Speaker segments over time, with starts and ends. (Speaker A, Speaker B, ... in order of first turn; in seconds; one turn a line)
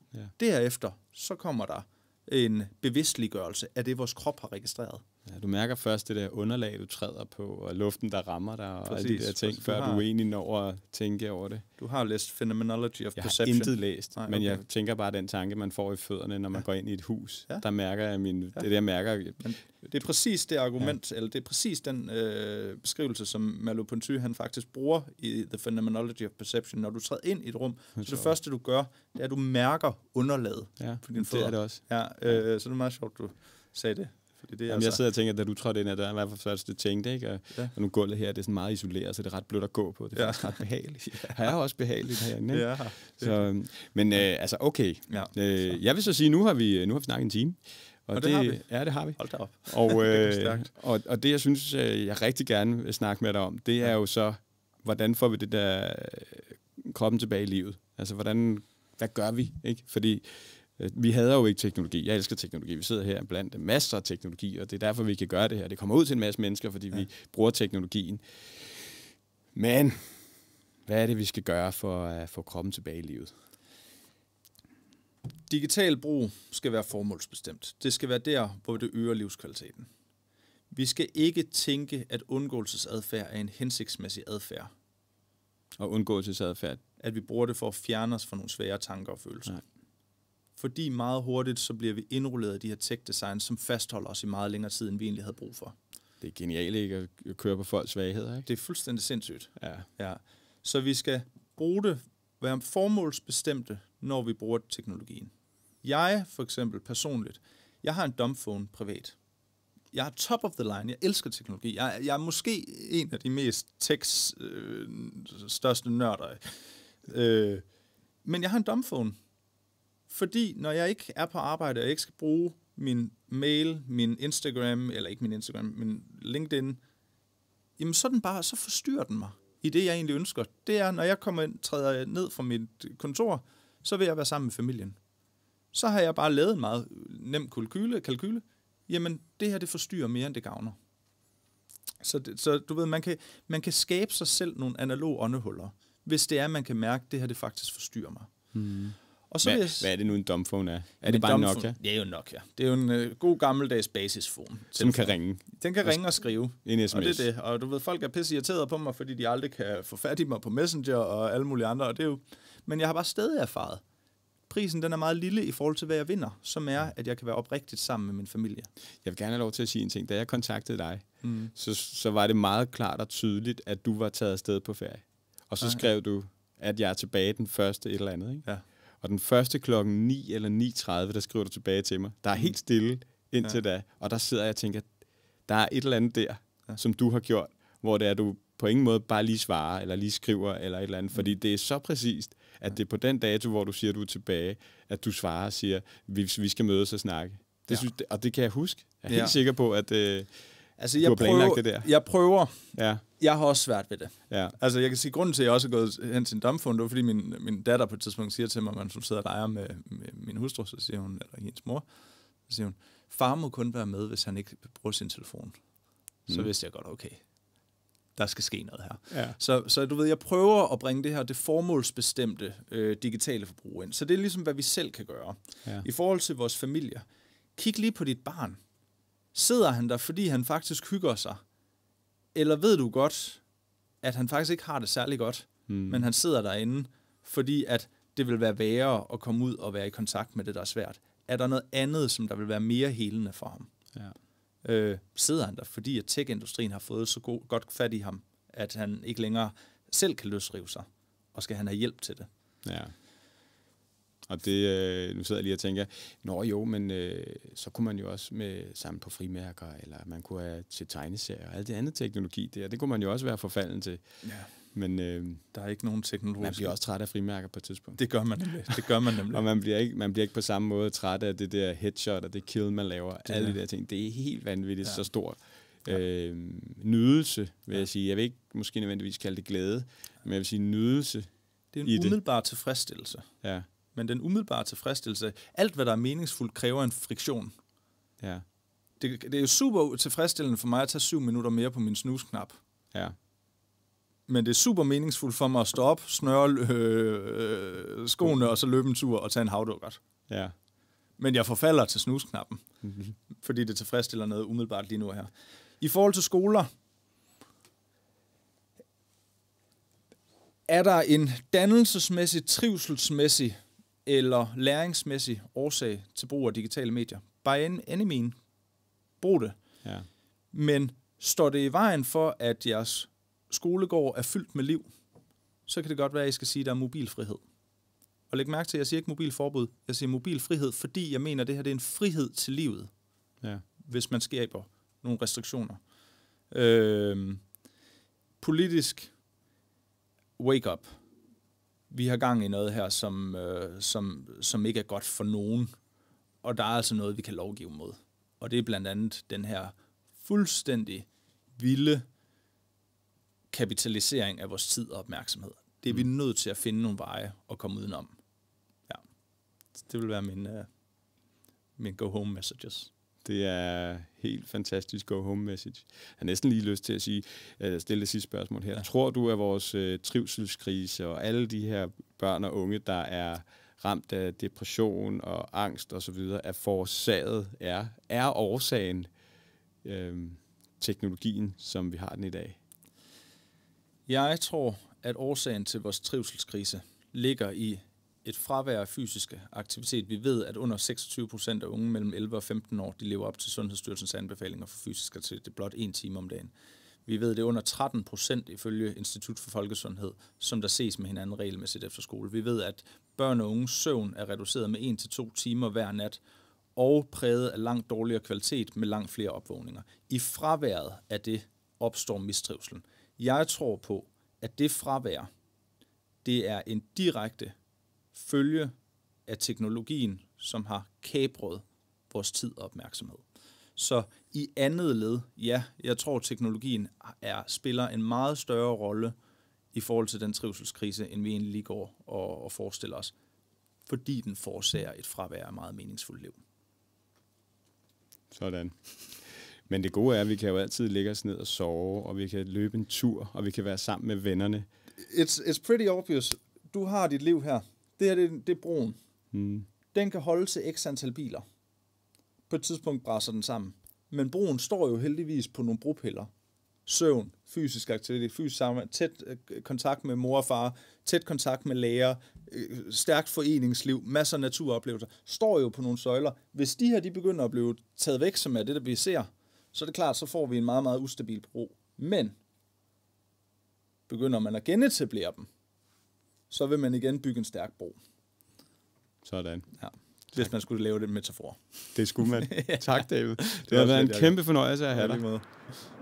Speaker A: 0.4-5.0
Speaker B: 5.2-11.6
Speaker A: 8.8-10.0
Speaker A: 11.8-14.6
Speaker B: 13.2-19.4
Speaker A: 19.4-35.0
Speaker B: 28.0-28.3
Speaker B: 30.8-32.4
Speaker B: 34.7-70.2
Speaker A: 40.1-41.5
Speaker A: 42.5-43.4
Speaker A: 45.1-45.3
Speaker A: 48.1-48.6
Speaker A: 49.1-50.7
Speaker B: 70.8-73.3
Speaker A: 75.5-79.9
Speaker A: 80.7-84.7
Speaker B: 85.8-86.8
Speaker A: 87.0-89.6
Speaker A: 90.6-95.7
Speaker B: 96.2-98.5
Speaker A: 98.5-105.3
Speaker B: 99.6-99.9
Speaker A: 105.8-109.2
Speaker A: 109.9-117.6
Speaker A: 118.2-119.2
Speaker A: 120.1-126.8
Speaker A: 127.8-135.0
Speaker A: 135.7-140.8
Speaker A: 142.0-148.3
Speaker B: 148.5-151.8
Speaker A: 149.3-149.9
Speaker A: 151.0-163.8
Speaker B: 154.8-157.3
Speaker A: 164.5-168.7
Speaker B: 169.0-178.5
Speaker A: 171.2-171.5
Speaker B: 179.0-184.9
Speaker B: 185.5-200.4
Speaker A: 199.1-199.4
Speaker A: 200.8-211.8
Speaker B: 201.0-201.9
Speaker B: 202.7-203.0
Speaker B: 204.3-204.5
Speaker A: 212.5-215.5
Speaker A: 216.3-217.2
Speaker A: 218.1-227.0
Speaker B: 219.1-219.4
Speaker A: 227.6-228.6
Speaker A: 229.3-231.4
Speaker A: 232.3-233.4
Speaker A: 234.0-243.7
Speaker B: 235.7-236.1
Speaker A: 244.6-252.3
Speaker B: 252.6-252.9
Speaker B: 254.3-264.0
Speaker A: 264.2-264.5
Speaker B: 264.7-265.4
Speaker A: 265.5-266.8
Speaker B: 266.4-268.0
Speaker A: 268.0-269.4
Speaker B: 269.3-281.3
Speaker A: 273.2-273.6
Speaker A: 281.7-283.3
Speaker B: 281.8-282.1
Speaker A: 283.9-287.5
Speaker A: 289.0-292.6
Speaker A: 294.3-300.0
Speaker B: 300.3-300.5
Speaker A: 301.2-302.6
Speaker B: 302.8-303.1
Speaker A: 303.4-306.7
Speaker A: 310.7-318.3
Speaker A: 319.2-319.6
Speaker A: 320.5-324.9
Speaker A: 325.7-327.4
Speaker A: 328.3-332.9
Speaker A: 333.8-335.8
Speaker A: 336.5-337.4
Speaker A: 338.4-339.1
Speaker A: 340.4-341.0
Speaker A: 341.9-345.7
Speaker A: 346.4-352.0
Speaker A: 353.5-358.1
Speaker A: 359.8-360.7
Speaker A: 361.8-362.9
Speaker B: 363.2-379.1
Speaker B: 379.8-382.6
Speaker A: 384.1-396.5
Speaker A: 397.1-406.2
Speaker A: 406.8-415.3
Speaker A: 416.2-417.5
Speaker A: 418.1-418.7
Speaker A: 419.3-423.2
Speaker A: 423.8-429.1
Speaker A: 429.7-433.1
Speaker A: 433.9-436.4
Speaker B: 438.3-444.6
Speaker A: 445.0-449.0
Speaker B: 449.3-449.7
Speaker A: 449.9-451.4
Speaker A: 452.5-456.3
Speaker A: 456.9-472.4
Speaker A: 474.1-475.5
Speaker A: 476.5-478.0
Speaker B: 479.2-479.7
Speaker A: 479.8-484.4
Speaker B: 481.9-485.2
Speaker A: 484.9-485.5